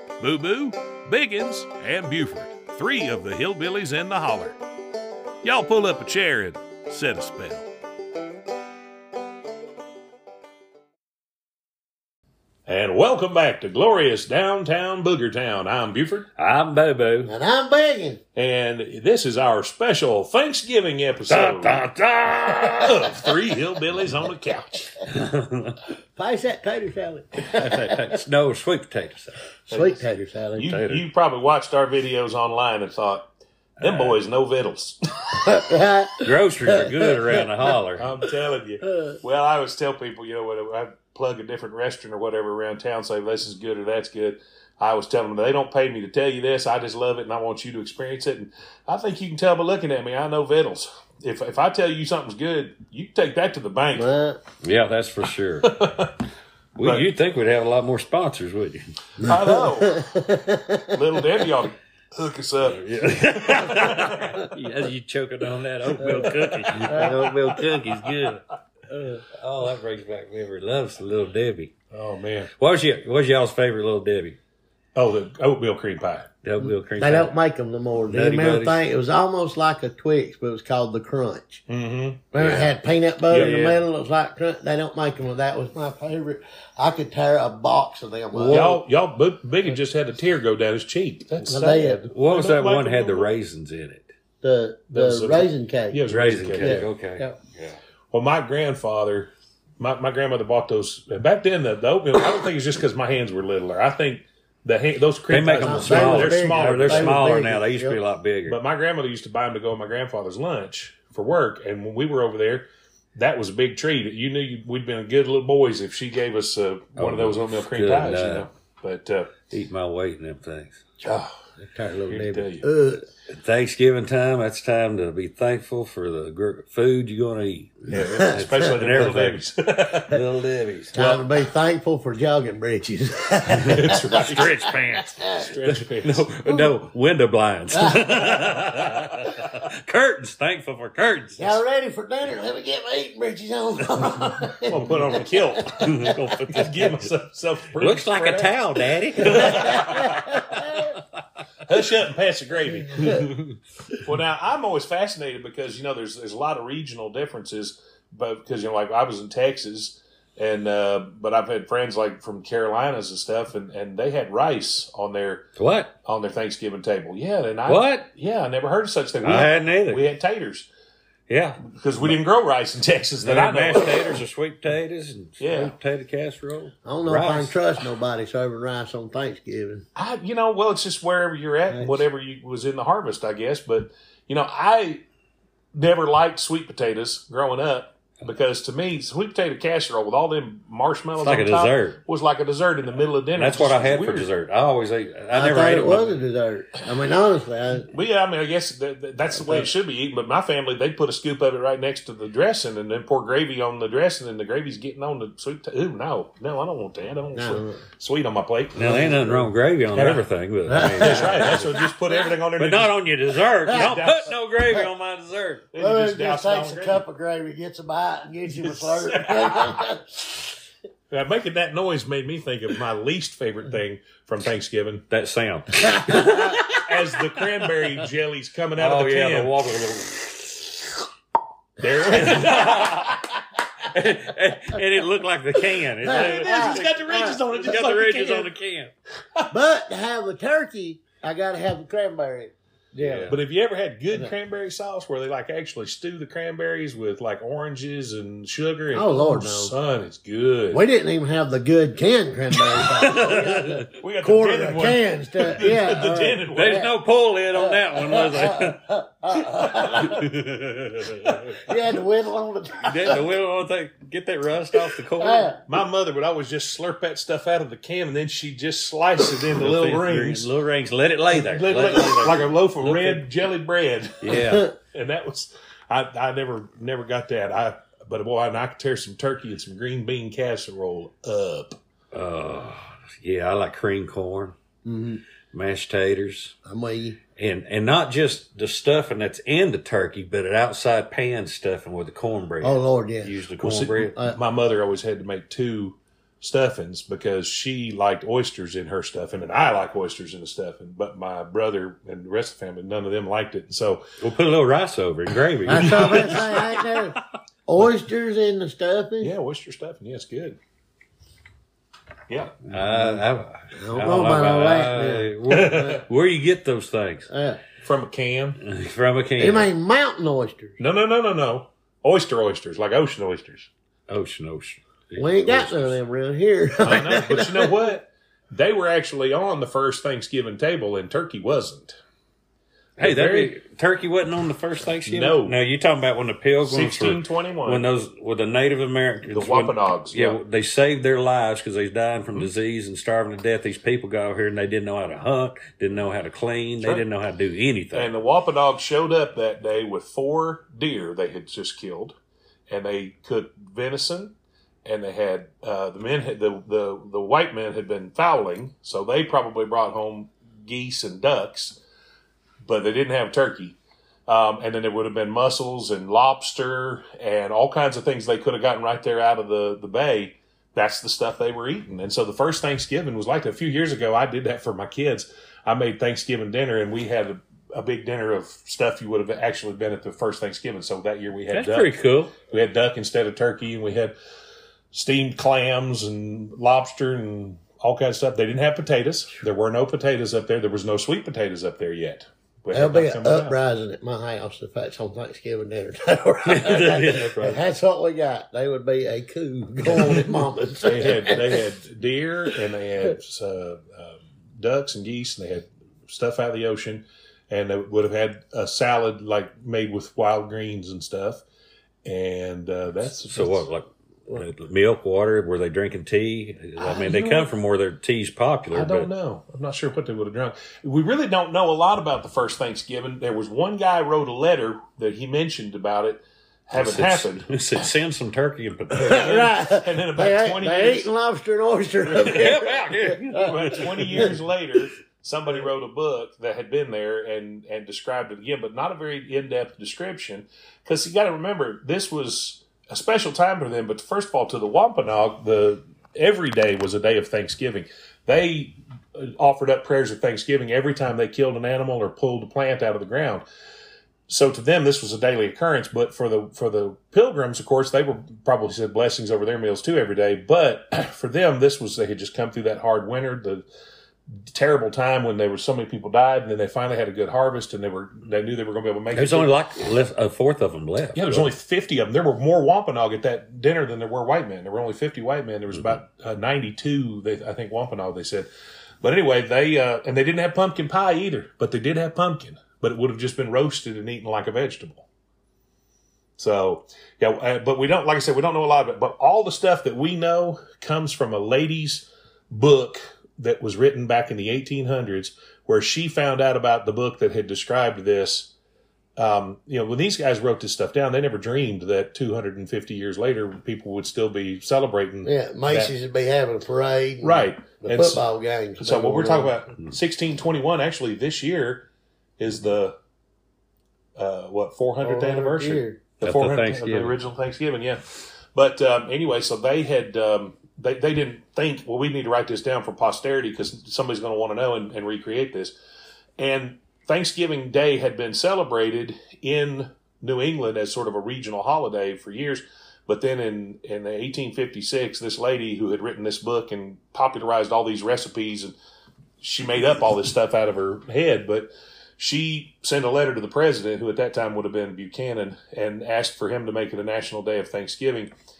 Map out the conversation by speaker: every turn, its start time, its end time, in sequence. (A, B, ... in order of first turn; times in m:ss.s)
0:00.2-0:04.6 A
0:05.4-0:07.7 A
0:12.6-0:16.3 A
0:16.4-0:17.3 B
0:17.3-0:18.2 C
0:18.4-0:21.8 A
0:21.3-0:23.3 B
0:22.8-0:25.0 A
0:25.1-0:25.8 B
0:26.2-0:28.2 C
0:27.5-0:29.4 B
0:29.7-0:30.7 C
0:29.7-0:33.2 A
0:30.6-0:31.0 B
0:33.8-0:34.2 B
0:33.8-0:35.5 A
0:35.4-0:37.4 C
0:36.2-0:38.1 B
0:38.0-0:54.1 A
0:38.9-0:39.1 C
0:53.9-0:54.4 C
0:54.6-0:55.9 B
0:55.6-0:56.1 A
0:56.8-0:59.3 B
0:59.2-1:00.3 A
0:59.2-1:01.2 C
1:00.9-1:04.4 A
1:02.6-1:08.4 B
1:06.0-1:07.3 C
1:06.8-1:07.1 A
1:08.9-1:09.2 C
1:09.3-1:11.7 B
1:11.9-1:12.5 A
1:12.5-1:14.4 B
1:14.9-1:16.3 A
1:16.4-1:17.3 B
1:17.0-1:21.6 C
1:18.1-1:18.8 B
1:21.7-1:22.7 A
1:22.3-1:28.8 C
1:23.3-1:23.8 A
1:28.3-1:28.8 B
1:28.5-1:33.3 A
1:31.4-1:32.1 C
1:32.1-1:34.1 B
1:34.4-1:37.4 C
1:34.9-1:36.8 A
1:36.0-1:37.8 B
1:38.1-1:47.3 A
1:45.3-1:48.6 B
1:45.6-1:48.0 C
1:48.5-1:59.4 A
1:57.0-1:58.4 B
1:59.5-2:00.8 B
2:01.0-2:01.3 A
2:01.0-2:03.0 C
2:02.1-2:02.6 A
2:03.3-2:09.4 B
2:07.9-2:10.2 A
2:10.0-2:11.2 B
2:10.9-2:15.5 C
2:13.5-2:15.2 B
2:13.6-2:14.7 A
2:15.2-2:16.3 A
2:16.0-2:21.6 B
2:17.7-2:18.1 C
2:21.4-2:25.9 C
2:24.7-2:30.4 A
2:25.7-2:27.1 B
2:27.7-2:31.0 B
2:29.3-2:30.5 C
2:31.6-2:33.3 A
2:33.0-2:33.2 C
2:33.0-2:33.5 B
2:34.0-2:45.5 A
2:45.6-2:45.9 B
2:46.0-2:50.7 A
2:47.6-2:48.1 B
2:49.2-2:50.0 B
2:51.3-2:51.6 B
2:51.6-2:54.2 A
2:53.2-2:57.6 B
2:55.4-2:55.8 A
2:56.8-2:59.8 C
3:00.0-3:05.0 A
3:01.7-3:02.0 C
3:05.7-3:14.3 A
3:11.2-3:12.0 B
3:13.3-3:16.2 B
3:15.3-3:17.9 C
3:17.9-3:29.2 A
3:19.3-3:19.7 C
3:27.3-3:27.8 C
3:28.8-3:31.8 B
3:28.8-3:29.5 C
3:29.9-3:30.2 A
3:30.7-3:31.9 C
3:30.9-3:33.0 A
3:32.6-3:35.6 B
3:33.7-3:34.4 A
3:35.7-3:37.0 A
3:35.8-3:40.1 C
3:38.6-3:39.9 A
3:41.1-3:45.0 A
3:45.1-3:47.5 B
3:45.9-3:46.5 C
3:46.5-3:49.5 A
3:48.8-3:51.0 B
3:51.8-3:53.2 A
3:52.1-3:53.3 B
3:52.2-3:52.5 C
3:53.9-3:58.9 B
3:56.0-3:57.4 C
3:56.0-3:58.5 A
3:59.5-4:03.3 C
4:03.0-4:03.4 B
4:03.3-4:10.8 A
4:08.9-4:09.7 C
4:10.7-4:16.9 C
4:12.8-4:13.8 B
4:13.9-4:16.9 A
4:16.5-4:21.6 B
4:17.6-4:20.3 C
4:21.6-4:23.3 C
4:22.8-4:25.5 B
4:25.2-4:25.6 C
4:25.6-4:30.5 A
4:29.5-4:33.2 B
4:31.3-4:41.8 A
4:34.2-4:34.7 B
4:34.3-4:34.7 C
4:42.1-4:44.6 B
4:44.8-4:45.2 C
4:45.5-4:46.6 B
4:46.6-4:47.2 C
4:47.3-4:54.1 B
4:52.6-4:53.4 C
4:53.6-5:04.1 A
5:04.2-5:07.0 B
5:05.7-5:06.6 A
5:05.7-5:09.3 C
5:09.2-5:10.6 A
5:12.3-5:12.6 A
5:12.7-5:13.2 C
5:12.7-5:17.3 B
5:13.7-5:16.0 C
5:15.5-5:16.0 A
5:17.3-5:17.6 C
5:17.8-5:18.6 A
5:18.6-5:19.7 B
5:19.4-5:20.8 C
5:20.8-5:23.7 A
5:24.1-5:26.0 B
5:25.2-5:27.7 C
5:26.8-5:32.0 A
5:33.0-5:48.1 B
5:33.0-5:33.6 A
5:35.0-5:35.6 A
5:36.6-5:37.8 A
5:39.3-5:40.4 A
5:47.9-5:52.2 A
5:52.7-5:54.3 A
5:54.8-6:01.8 A
6:02.6-6:03.8 A
6:04.3-6:21.9 A
6:21.5-6:22.3 B
6:22.5-6:24.1 A
6:24.9-6:33.6 A
6:32.7-6:41.6 C
6:36.4-6:37.6 B
6:40.8-6:51.4 A
6:52.0-6:53.6 A
6:53.3-6:59.1 B
6:56.8-6:57.5 A
6:58.7-7:07.8 A
7:06.7-7:09.5 B
7:08.9-7:13.4 C
7:09.1-7:11.1 A
7:12.2-7:14.4 B
7:13.3-7:33.4 A
7:34.3-7:43.6 A
7:44.5-7:49.5 A
7:49.1-7:51.5 B
7:51.1-7:58.5 A
7:59.0-8:05.1 A
8:06.4-8:18.5 A
8:19.2-8:25.9 A
8:25.2-8:29.5 C
8:27.2-8:28.2 A
8:28.8-8:31.8 A
8:32.4-8:33.0 A
8:34.2-8:45.7 A
8:35.0-8:36.0 C
8:36.2-8:37.2 B
8:46.4-8:58.7 A
8:59.4-9:08.3 A